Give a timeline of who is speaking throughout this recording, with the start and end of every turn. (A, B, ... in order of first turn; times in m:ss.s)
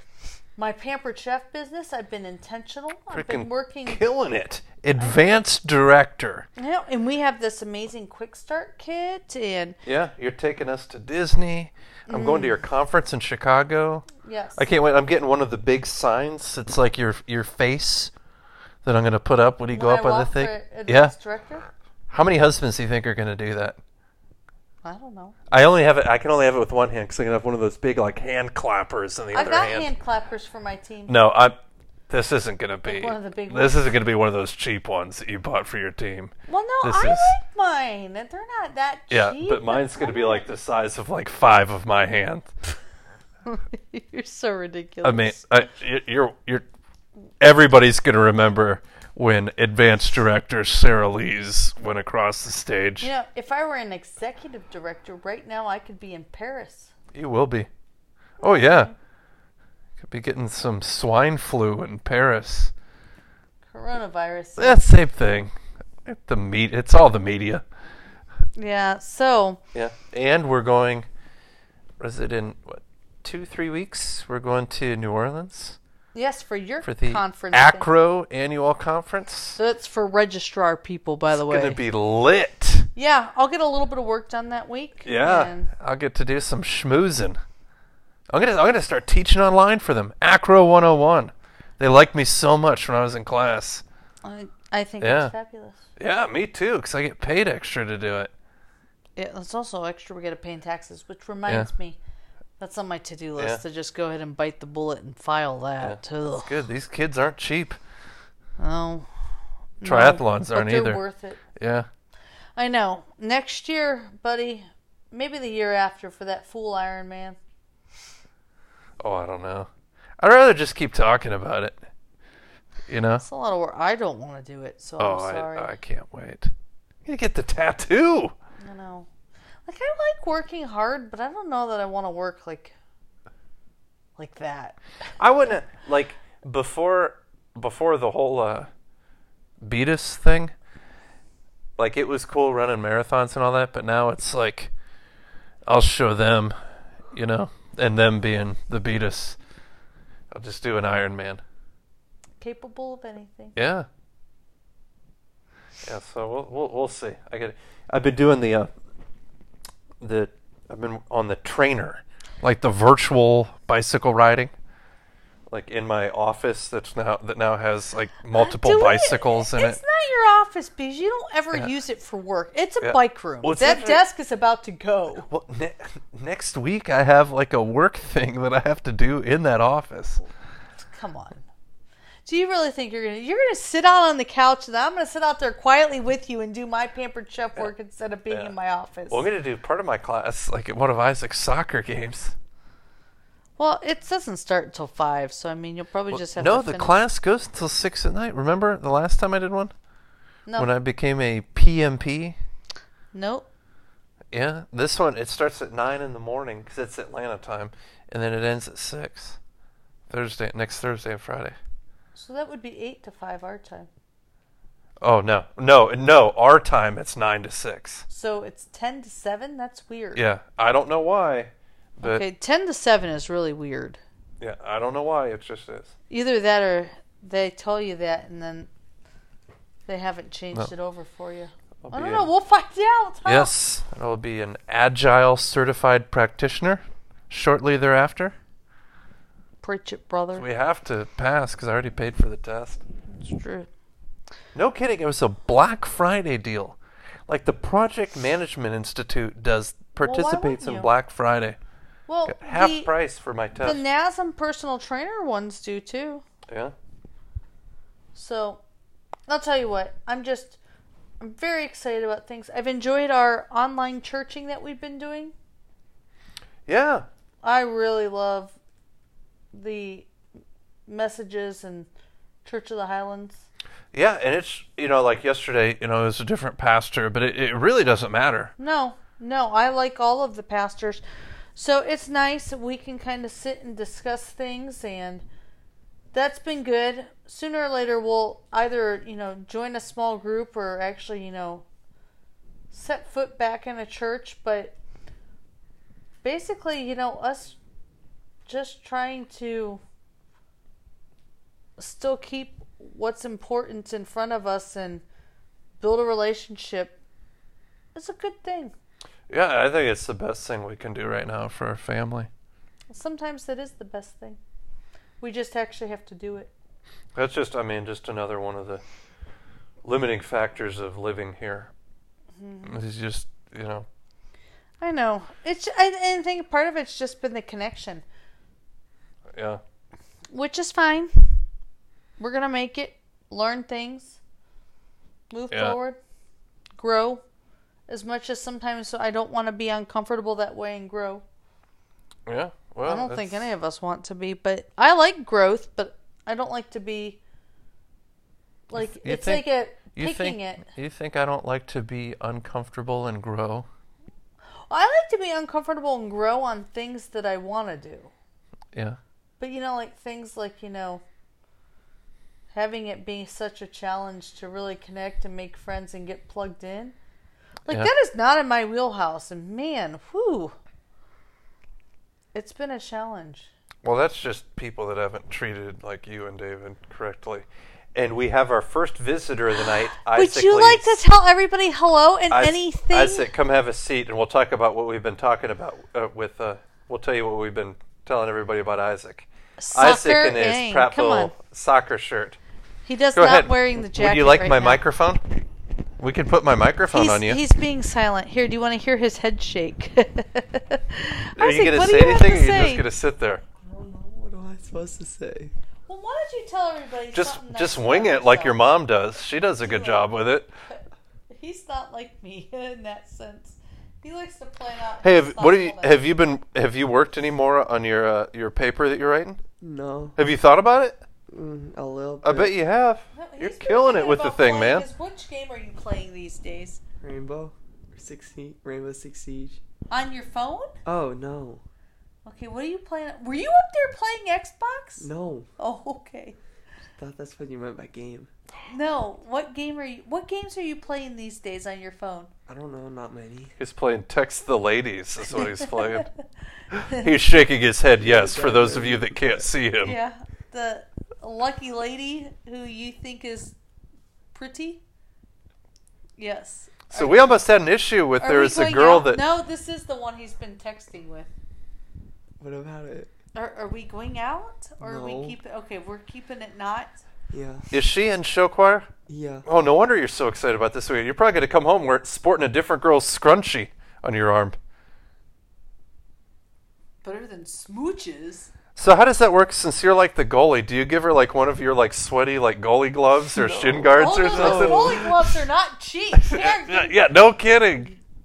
0:00.6-0:04.1 A
0:03.1-0:06.5 B
0:06.6-0:09.8 A
0:09.8-0:18.1 B
0:12.1-0:12.6 A
0:14.2-0:14.6 A
0:18.8-0:21.1 B
0:19.7-0:21.7 A
0:22.1-0:23.8 B
0:24.8-0:25.4 A
0:25.5-0:29.9 B
0:29.3-0:31.1 A
0:31.1-0:31.6 B
0:32.1-0:37.4 B
0:32.9-0:33.9 A
0:36.5-0:40.5 A
0:39.1-0:42.5 B
0:43.5-0:45.4 A
0:45.0-0:46.6 B
0:47.4-0:53.1 B
0:53.0-0:56.9 A
0:57.1-0:57.7 B
0:58.4-0:58.9 B
0:58.4-0:58.9 A
1:00.0-1:02.7 B
1:03.7-1:04.8 A
1:04.6-1:05.5 B
1:06.0-1:07.6 B
1:08.6-1:09.6 A
1:09.7-1:11.1 B
1:12.0-1:15.8 B
1:16.1-1:17.9 A
1:16.8-1:19.6 B
1:19.6-1:21.8 A
1:21.3-1:22.9 B
1:23.0-1:25.7 A
1:25.0-1:27.4 B
1:28.3-1:33.8 B
1:34.2-1:35.8 A
1:35.0-1:35.3 B
1:36.0-1:38.3 B
1:39.2-1:42.0 A
1:42.6-1:46.5 A
1:45.8-1:47.8 B
1:48.6-1:49.1 A
1:49.8-1:51.4 A
1:49.8-1:51.0 B
1:51.6-1:51.9 B
1:52.6-1:57.4 A
1:59.0-2:01.8 B
2:02.9-2:03.2 B
2:03.2-2:05.8 A
2:05.0-2:06.5 B
2:07.0-2:08.3 B
2:08.6-2:09.1 A
2:09.7-2:12.8 A
2:14.2-2:14.8 A
2:15.2-2:18.7 B
2:19.6-2:20.5 B
2:21.8-2:24.7 B
2:25.7-2:26.6 B
2:27.1-2:29.4 B
2:30.3-2:31.4 B
2:32.4-2:33.6 A
2:33.6-2:33.9 B
2:35.8-2:38.7 B
2:40.0-2:44.5 B
2:45.5-2:49.8 B
2:48.3-2:55.3 A
2:52.8-2:54.0 B
2:55.2-3:00.2 B
3:00.8-3:01.4 A
3:02.3-3:09.3 A
3:09.1-3:12.4 B
3:13.6-3:17.0 A
3:16.1-3:19.7 B
3:20.6-3:22.4 B
3:23.1-3:23.5 A
3:24.3-3:29.4 B
3:30.1-3:31.6 B
3:32.2-3:33.9 A
3:35.0-3:38.0 B
3:38.1-3:40.2 A
3:40.2-3:42.2 B
3:42.0-3:44.0 A
3:44.4-3:45.9 B
3:46.1-3:48.7 A
3:49.9-3:53.5 A
3:51.8-3:52.3 B
3:53.3-3:58.4 B
3:59.6-4:00.5 A
4:00.4-4:02.8 B
4:03.1-4:03.7 A
4:04.6-4:06.8 B
4:07.3-4:11.6 B
4:10.0-4:10.9 A
4:12.1-4:12.9 A
4:12.3-4:13.8 B
4:13.6-4:16.2 A
4:16.5-4:16.7 B
4:18.2-4:18.6 A
4:19.3-4:20.6 A
4:21.2-4:25.3 A
4:26.7-4:27.1 B
4:27.4-4:28.6 A
4:29.5-4:30.1 A
4:30.9-4:31.9 A
4:32.4-4:33.5 A
4:33.9-4:38.5 B
4:38.6-4:41.0 A
4:41.6-4:45.2 A
4:46.1-4:51.6 A
4:52.7-4:54.8 A
4:56.2-4:57.6 A
4:58.5-4:59.8 A
5:01.8-5:05.0 A
5:05.8-5:07.0 A
5:08.0-5:08.7 A
5:09.3-5:12.3 B
5:12.9-5:14.4 A
5:15.2-5:16.5 A
5:17.2-5:18.8 B
5:19.8-5:21.7 B
5:22.4-5:22.8 A
5:22.6-5:23.9 B
5:24.8-5:28.0 A
5:29.3-5:29.6 B
5:30.3-5:31.1 A
5:32.2-5:34.2 A
5:35.3-5:36.0 A
5:35.5-5:35.8 B
5:36.8-5:37.2 A
5:37.9-5:41.2 A
5:42.3-5:43.5 B
5:42.8-5:47.2 A
5:48.7-5:50.7 A
5:49.0-5:53.7 B
5:54.7-5:58.1 A
5:58.7-5:59.0 B
5:59.4-6:01.0 A
6:02.5-6:07.0 A
6:07.7-6:10.6 A
6:12.3-6:13.5 A
6:13.8-6:20.8 B
6:20.1-6:23.3 A
6:22.3-6:32.4 B
6:29.6-6:31.4 A
6:32.8-6:34.8 A
6:33.2-6:35.2 B
6:36.0-6:37.4 B
6:36.9-6:42.8 A
6:41.4-6:43.4 B
6:43.6-6:45.5 C
6:45.9-6:48.6 A
6:47.1-6:50.5 B
6:49.6-6:50.1 A
6:50.7-6:56.1 A
6:55.0-6:59.4 B
6:59.6-7:00.2 C
7:00.2-7:01.0 B
7:01.3-7:02.5 C
7:02.2-7:04.9 B
7:03.1-7:06.8 A
7:07.0-7:09.6 C
7:09.9-7:10.8 A
7:10.9-7:11.6 C
7:12.2-7:15.1 A
7:15.0-7:15.5 C
7:15.6-7:16.4 A
7:17.0-7:18.3 C
7:18.7-7:22.3 A
7:22.5-7:23.5 C
7:23.6-7:26.1 B
7:25.3-7:26.1 A
7:26.7-7:30.0 B
7:28.0-7:29.5 C
7:29.8-7:33.6 A
7:34.3-7:34.8 A
7:36.2-7:37.2 A
7:36.9-7:39.2 B
7:38.2-7:41.3 A
7:42.4-7:43.1 C
7:43.4-7:47.0 A
7:44.8-7:45.4 C
7:47.3-7:47.7 C
7:47.7-7:48.9 B
7:49.1-7:49.5 C
7:49.5-7:54.6 B
7:57.0-7:58.5 A
7:58.8-8:05.2 B
8:03.3-8:05.4 C
8:03.9-8:07.0 A
8:06.2-8:07.9 B